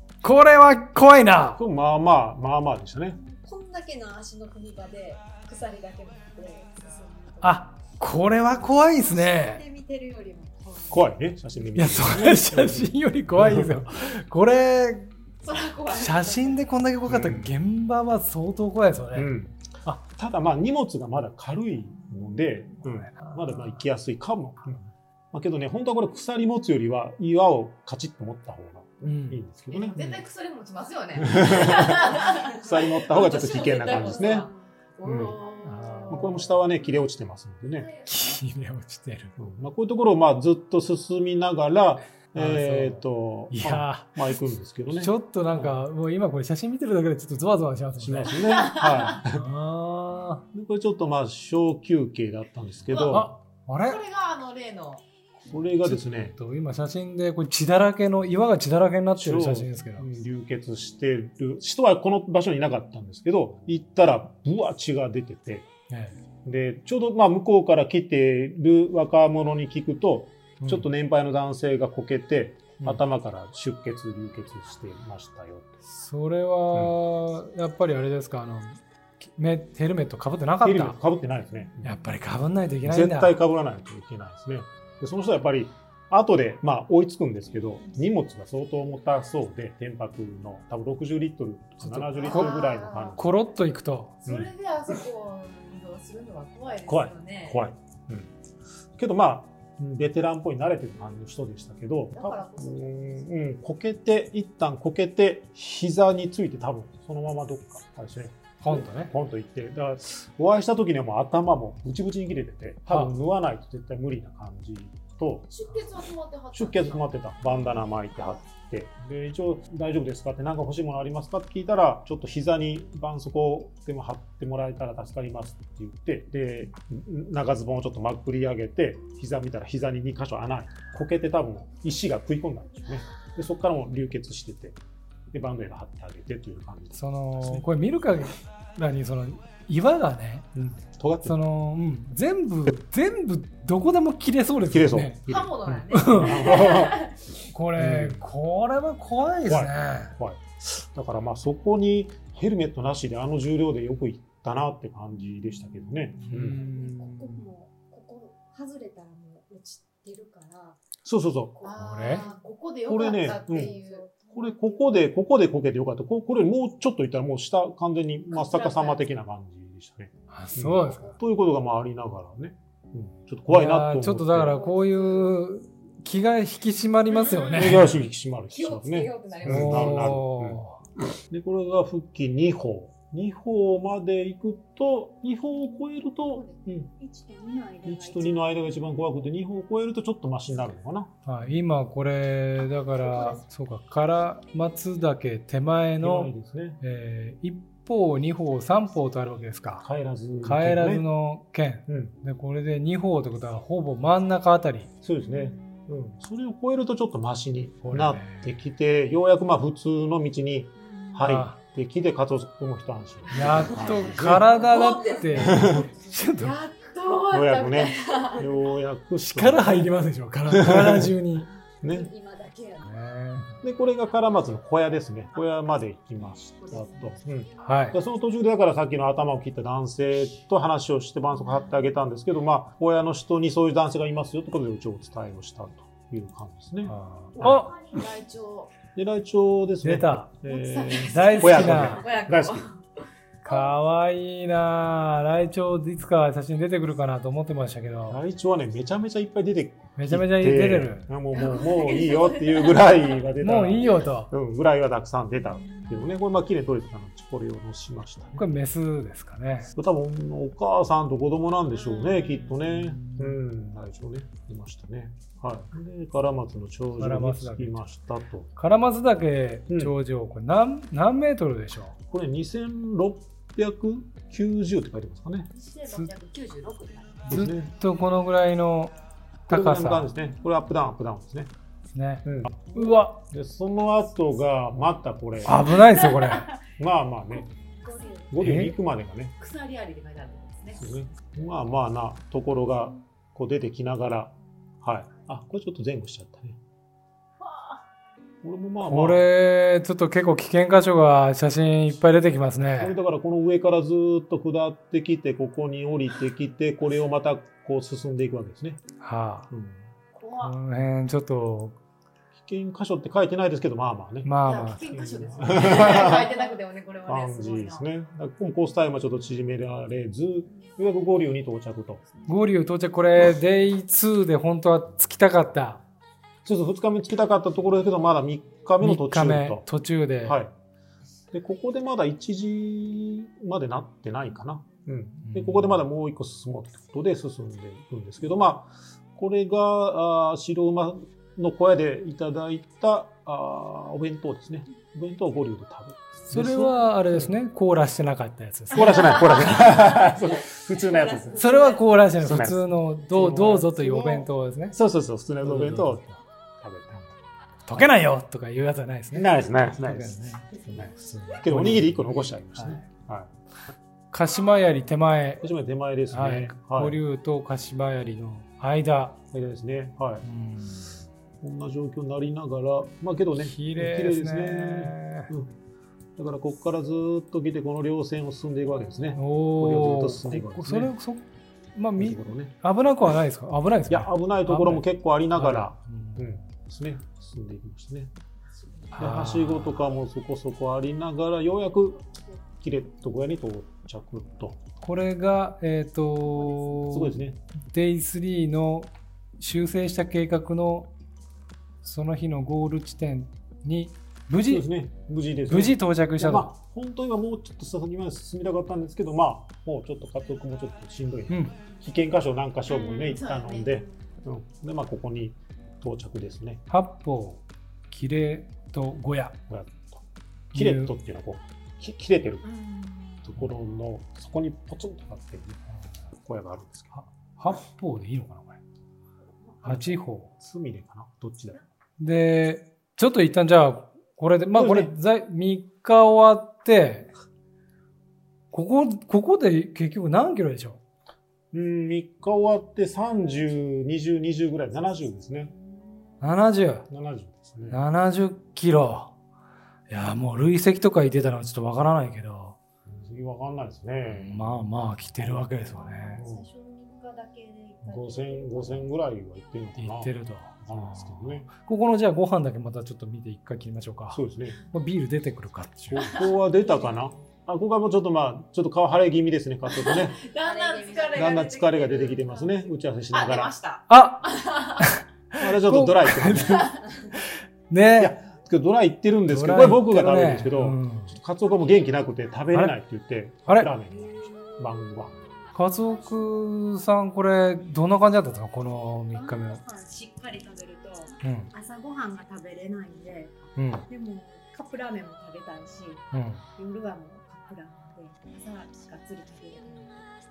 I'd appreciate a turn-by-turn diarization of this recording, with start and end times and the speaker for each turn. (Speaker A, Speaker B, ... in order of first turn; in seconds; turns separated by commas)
Speaker A: 0.2-1.6, Speaker B: 1.6-3.2, Speaker C: 3.1-7.7, Speaker A: 7.4-9.6, Speaker C: 8.3-11.0, Speaker B: 10.9-13.8, Speaker A: 11.8-15.1, Speaker D: 15.4-16.6, Speaker A: 15.9-19.3, Speaker B: 17.1-17.5, Speaker B: 19.1-24.8, Speaker A: 22.8-23.8, Speaker B: 25.3-30.2, Speaker A: 29.0-29.4, Speaker D: 29.7-36.5, Speaker B: 31.2-34.5, Speaker C: 33.8-34.5, Speaker B: 35.0-35.4, Speaker A: 35.6-36.4, Speaker B: 36.1-37.9, Speaker A: 38.0-39.3, Speaker B: 39.4-45.8, Speaker A: 42.3-44.2, Speaker A: 44.9-48.5, Speaker B: 48.0-49.4, Speaker D: 48.4-49.2, Speaker A: 49.3-50.4, Speaker B: 50.5-53.3, Speaker D: 52.9-53.3, Speaker A: 53.1-54.0, Speaker D: 53.8-55.0, Speaker B: 55.5-56.3, Speaker A: 55.8-60.1, Speaker B: 59.1-65.7, Speaker A: 65.9-66.2, Speaker B: 66.4-75.8, Speaker A: 70.6-70.9, Speaker A: 75.8-81.0, Speaker B: 80.6-82.0, Speaker A: 81.8-83.3, Speaker B: 82.8-93.2, Speaker A: 91.8-92.6, Speaker D: 92.1-93.2, Speaker A: 93.1-94.2, Speaker D: 94.2-97.6, Speaker B: 96.9-98.3, Speaker B: 99.0-115.5, Speaker D: 102.1-103.2, Speaker A: 108.6-109.1, Speaker A: 112.9-113.1, Speaker D: 115.5-117.2, Speaker B: 116.5-134.8, Speaker B: 135.3-137.7, Speaker A: 136.9-140.5, Speaker B: 140.5-141.4, Speaker A: 141.2-145.2, Speaker B: 144.7-147.1, Speaker D: 145.3-147.1, Speaker A: 145.9-146.6, Speaker A: 147.5-150.2, Speaker B: 147.8-148.3, Speaker B: 149.4-156.6, Speaker A: 156.2-157.1, Speaker C: 156.4-160.8, Speaker B: 161.0-161.6, Speaker C: 161.6-162.4, Speaker D: 161.6-164.1, Speaker A: 161.8-162.2, Speaker B: 162.8-163.7, Speaker C: 163.1-165.0, Speaker B: 164.3-174.6, Speaker D: 168.3-169.0, Speaker A: 170.3-171.1, Speaker C: 170.7-171.2, Speaker A: 173.5-177.9, Speaker C: 174.4-175.3, Speaker D: 177.2-178.0, Speaker B: 177.5-180.6, Speaker D: 178.5-180.2, Speaker A: 179.4-180.8, Speaker B: 181.1-186.9, Speaker C: 186.3-188.6, Speaker B: 187.8-191.1, Speaker A: 191.2-199.8, Speaker C: 192.9-193.4, Speaker B: 196.0-196.8, Speaker B: 199.8-201.0, Speaker A: 200.4-204.9, Speaker B: 201.9-202.1, Speaker B: 205.0-214.6, Speaker A: 207.8-208.5, Speaker D: 210.8-211.2, Speaker A: 211.2-211.6, Speaker A: 213.3-216.6, Speaker C: 214.5-215.9, Speaker D: 214.8-215.2, Speaker B: 215.3-215.9, Speaker D: 216.4-218.5, Speaker B: 217.3-219.9, Speaker A: 219.2-221.5, Speaker B: 220.5-221.1, Speaker B: 221.8-222.1, Speaker C: 221.8-223.1, Speaker A: 222.8-223.6, Speaker B: 223.6-237.7, Speaker D: 226.6-227.1, Speaker A: 227.6-228.0, Speaker A: 236.8-237.7, Speaker D: 237.4-238.7, Speaker B: 238.9-242.7, Speaker A: 239.8-240.3, Speaker D: 240.5-242.8, Speaker A: 241.0-242.0, Speaker A: 243.4-248.2, Speaker B: 248.1-258.4, Speaker A: 249.9-251.1, Speaker D: 251.3-253.2, Speaker A: 253.4-254.3, Speaker D: 255.6-255.9, Speaker A: 258.4-259.7, Speaker B: 259.7-268.5, Speaker D: 261.8-262.4, Speaker A: 262.6-263.4, Speaker A: 266.9-267.8, Speaker A: 268.5-271.9, Speaker B: 269.7-269.9, Speaker B: 272.1-275.5, Speaker D: 275.5-277.2, Speaker B: 277.2-277.7, Speaker A: 277.3-278.9, Speaker A: 279.5-280.1, Speaker B: 279.5-281.5, Speaker A: 281.9-283.2, Speaker B: 282.2-285.7, Speaker A: 285.4-286.5, Speaker B: 286.8-287.5, Speaker C: 287.8-288.4, Speaker B: 288.3-289.3, Speaker A: 288.4-288.7, Speaker D: 289.4-290.8, Speaker B: 290.7-296.6, Speaker D: 297.4-297.8, Speaker B: 298.4-299.2, Speaker A: 298.8-302.9, Speaker B: 302.8-308.8, Speaker A: 309.0-309.5, Speaker B: 309.5-309.8, Speaker D: 310.1-310.6, Speaker A: 310.4-311.8, Speaker B: 312.4-316.3, Speaker A: 314.2-315.2, Speaker D: 314.4-317.9, Speaker C: 315.6-316.6, Speaker B: 317.1-322.0, Speaker A: 322.3-325.8, Speaker B: 326.4-329.6, Speaker A: 328.8-330.4, Speaker B: 330.2-330.5, Speaker B: 331.3-347.4, Speaker A: 335.2-335.8, Speaker A: 346.3-349.6, Speaker B: 348.7-351.7, Speaker D: 350.9-351.8, Speaker A: 351.3-354.8, Speaker B: 352.2-356.1, Speaker A: 355.4-356.2, Speaker B: 356.6-357.1, Speaker A: 357.7-362.9, Speaker B: 359.1-363.3, Speaker A: 364.1-365.4, Speaker B: 365.4-367.0, Speaker A: 366.1-369.2, Speaker B: 369.3-370.2, Speaker A: 370.2-371.0, Speaker B: 371.4-375.5, Speaker A: 373.3-375.3, Speaker B: 376.2-380.9, Speaker A: 379.1-386.4, Speaker B: 382.0-382.5, Speaker B: 383.9-388.1, Speaker A: 388.9-389.9, Speaker B: 389.0-392.0, Speaker B: 392.6-394.6, Speaker A: 394.8-400.9, Speaker C: 396.4-396.8, Speaker B: 396.9-397.4, Speaker A: 401.8-404.7, Speaker B: 404.4-416.6, Speaker A: 405.5-406.5, Speaker A: 411.3-411.5, Speaker D: 412.7-413.9, Speaker A: 416.7-419.4, Speaker B: 419.5-420.0, Speaker A: 420.5-420.9, Speaker B: 420.5-422.5, Speaker D: 422.4-423.2, Speaker B: 423.2-425.6, Speaker B: 426.2-427.0, Speaker A: 426.9-428.6, Speaker A: 429.6-430.3, Speaker B: 429.6-431.6, Speaker A: 432.0-437.1, Speaker B: 434.5-434.9, Speaker A: 438.5-440.8, Speaker B: 441.5-445.5, Speaker A: 446.2-446.9, Speaker B: 446.9-447.8, Speaker A: 447.7-449.1, Speaker A: 449.9-452.6, Speaker B: 452.9-454.4, Speaker A: 454.1-456.2, Speaker B: 455.1-455.5, Speaker C: 455.7-458.9, Speaker B: 456.2-456.4, Speaker B: 457.8-461.5, Speaker A: 459.8-466.1, Speaker B: 464.1-464.6, Speaker B: 465.9-470.2, Speaker C: 466.2-467.0, Speaker D: 469.8-472.2, Speaker C: 470.3-472.7, Speaker B: 471.1-473.5, Speaker D: 473.1-474.9, Speaker A: 473.9-478.1, Speaker B: 475.4-476.8, Speaker B: 478.0-485.1, Speaker A: 479.3-481.1, Speaker C: 481.4-482.4, Speaker C: 483.8-486.5, Speaker A: 485.5-489.6, Speaker C: 489.1-500.0, Speaker A: 491.2-491.5, Speaker A: 493.6-493.9, Speaker A: 496.1-496.4